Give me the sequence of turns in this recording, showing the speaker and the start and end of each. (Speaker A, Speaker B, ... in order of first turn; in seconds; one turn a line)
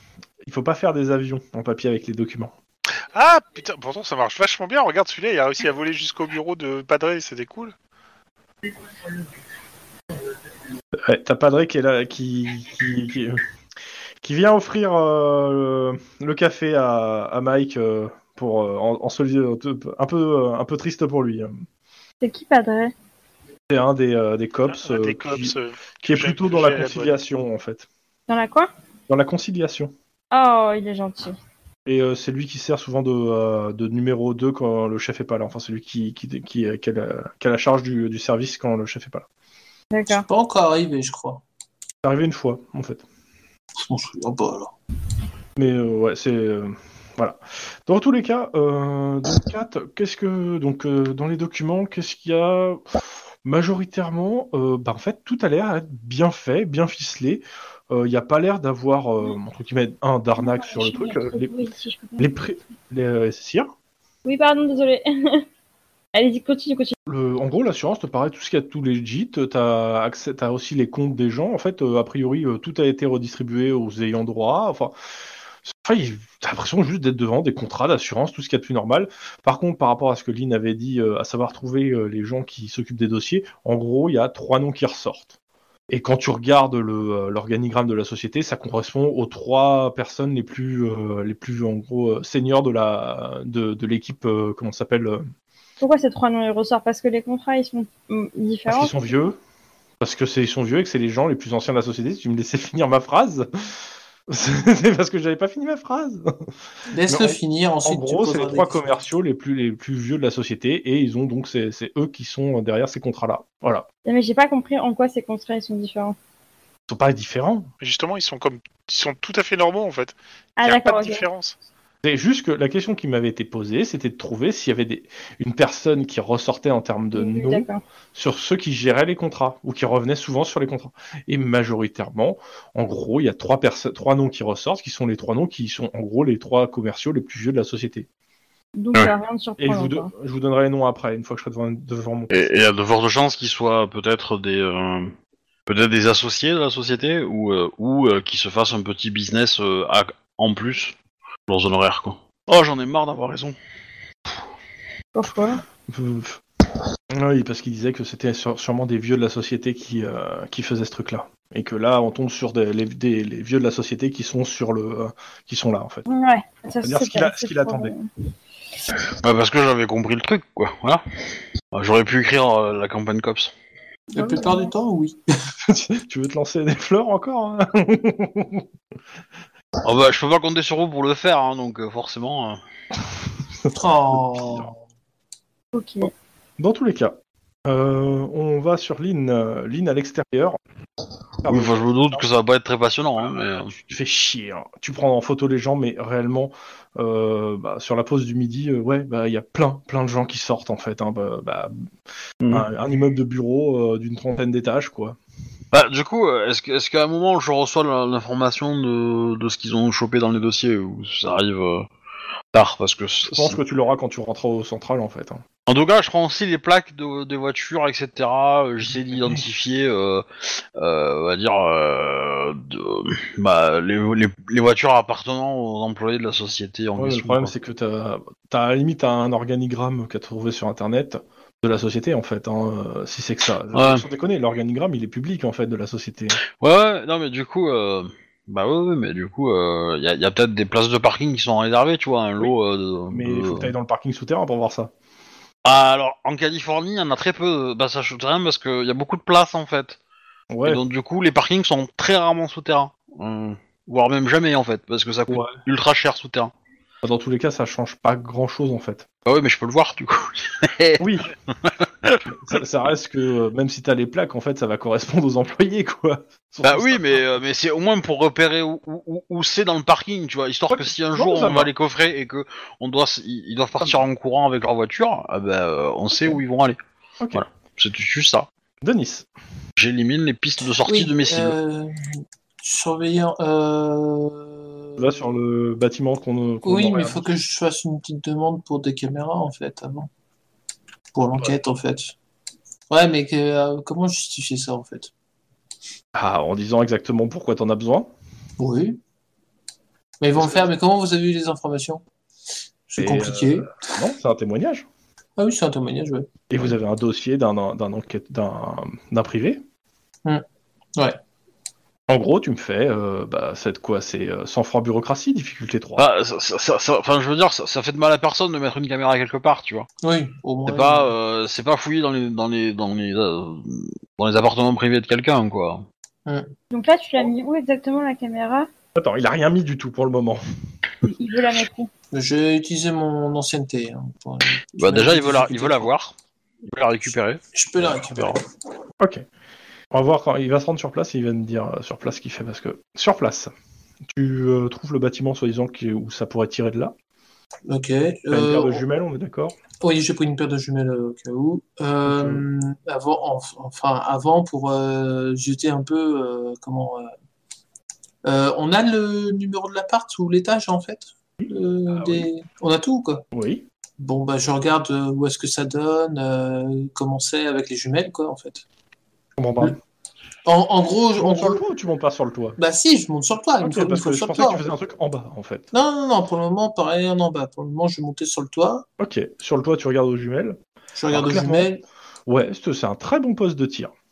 Speaker A: 0.4-2.5
Speaker B: 3.1-7.7
Speaker A: 11.0-13.4
Speaker A: 14.2-21.6
Speaker C: 22.2-22.9
Speaker A: 23.7-27.9
Speaker B: 24.7-27.1
Speaker C: 28.3-28.7
Speaker A: 29.1-29.9
Speaker C: 30.3-31.4
Speaker A: 31.9-39.2
Speaker C: 39.9-40.3
Speaker D: 40.2-41.4
Speaker A: 42.0-43.0
Speaker D: 43.8-44.7
Speaker A: 45.5-61.5
Speaker C: 60.4-62.3
Speaker A: 62.2-63.7
Speaker C: 64.2-65.4
Speaker C: 66.1-66.9
Speaker A: 67.0-74.9
Speaker A: 75.7-85.3
Speaker A: 85.9-95.3
Speaker C: 95.8-98.9
Speaker A: 98.7-99.4
Speaker A: 100.0-106.3
Speaker D: 106.9-108.8
Speaker A: 107.1-113.8
Speaker C: 114.0-116.2
Speaker A: 116.9-117.7
Speaker B: 117.8-121.5
Speaker C: 120.6-121.2
Speaker A: 122.0-138.1
Speaker C: 127.1-127.8
Speaker C: 138.8-140.1
Speaker A: 139.6-142.3
Speaker E: 142.3-145.1
Speaker E: 145.7-150.9
Speaker E: 151.5-153.6
Speaker C: 155.1-155.6
Speaker A: 155.9-156.4
Speaker A: 157.1-166.1
Speaker C: 166.1-168.1
Speaker A: 166.8-167.9
Speaker E: 169.2-171.0
Speaker E: 171.7-173.5
Speaker D: 174.1-175.2
Speaker C: 174.2-174.7
Speaker A: 175.6-178.7
Speaker E: 179.8-182.6
Speaker A: 183.6-184.7
Speaker D: 183.7-184.7
Speaker C: 185.7-186.1
Speaker A: 186.6-190.6
Speaker A: 191.4-192.2
Speaker E: 191.4-193.7
Speaker A: 193.7-201.8
Speaker A: 202.5-205.2
Speaker E: 205.7-211.9
Speaker E: 212.5-213.6
Speaker A: 213.3-215.4
Speaker E: 215.7-220.2
Speaker E: 220.8-227.5
Speaker A: 227.0-236.4
Speaker E: 233.7-234.0
Speaker E: 236.6-243.7
Speaker A: 243.1-244.9
Speaker E: 245.6-250.0
Speaker A: 250.5-250.8
Speaker E: 250.6-256.5
Speaker A: 255.3-255.6
Speaker A: 257.0-259.1
Speaker E: 259.2-261.0
Speaker A: 261.0-261.3
Speaker E: 261.6-262.2
Speaker A: 262.3-267.3
Speaker E: 266.6-276.8
Speaker A: 270.7-271.7
Speaker A: 276.1-276.4
Speaker E: 277.3-278.5
Speaker A: 278.8-279.3
Speaker E: 279.8-281.5
Speaker D: 280.9-282.1
Speaker D: 282.6-284.6
Speaker A: 285.0-287.2
Speaker D: 286.6-290.1
Speaker D: 291.1-292.1
Speaker D: 292.9-295.1
Speaker A: 296.1-298.1
Speaker D: 298.6-299.0
Speaker D: 300.2-302.0
Speaker A: 300.4-300.7
Speaker D: 302.9-303.7
Speaker A: 303.0-304.9
Speaker D: 305.4-306.3
Speaker A: 306.5-309.6
Speaker A: 312.1-316.1
Speaker E: 316.0-319.9
Speaker D: 320.0-321.1
Speaker E: 320.6-325.9
Speaker D: 326.2-326.5
Speaker C: 326.7-328.7
Speaker A: 328.9-330.4
Speaker C: 331.0-331.9
Speaker D: 332.1-335.9
Speaker E: 334.8-336.1
Speaker E: 336.6-338.4
Speaker D: 337.5-338.4
Speaker A: 339.0-339.2
Speaker A: 339.9-343.5
Speaker A: 344.1-346.9
Speaker D: 347.7-348.8
Speaker A: 348.3-349.6
Speaker D: 349.8-357.1
Speaker A: 352.0-352.5
Speaker D: 358.2-363.2
Speaker A: 361.4-362.3
Speaker A: 363.3-363.6
Speaker D: 364.0-368.6
Speaker A: 369.4-369.8
Speaker D: 370.4-371.6
Speaker A: 371.2-372.6
Speaker D: 372.6-374.6
Speaker A: 373.6-375.7
Speaker D: 375.7-378.8
Speaker A: 379.0-380.6
Speaker D: 380.9-381.8
Speaker A: 381.1-381.7
Speaker A: 382.3-383.9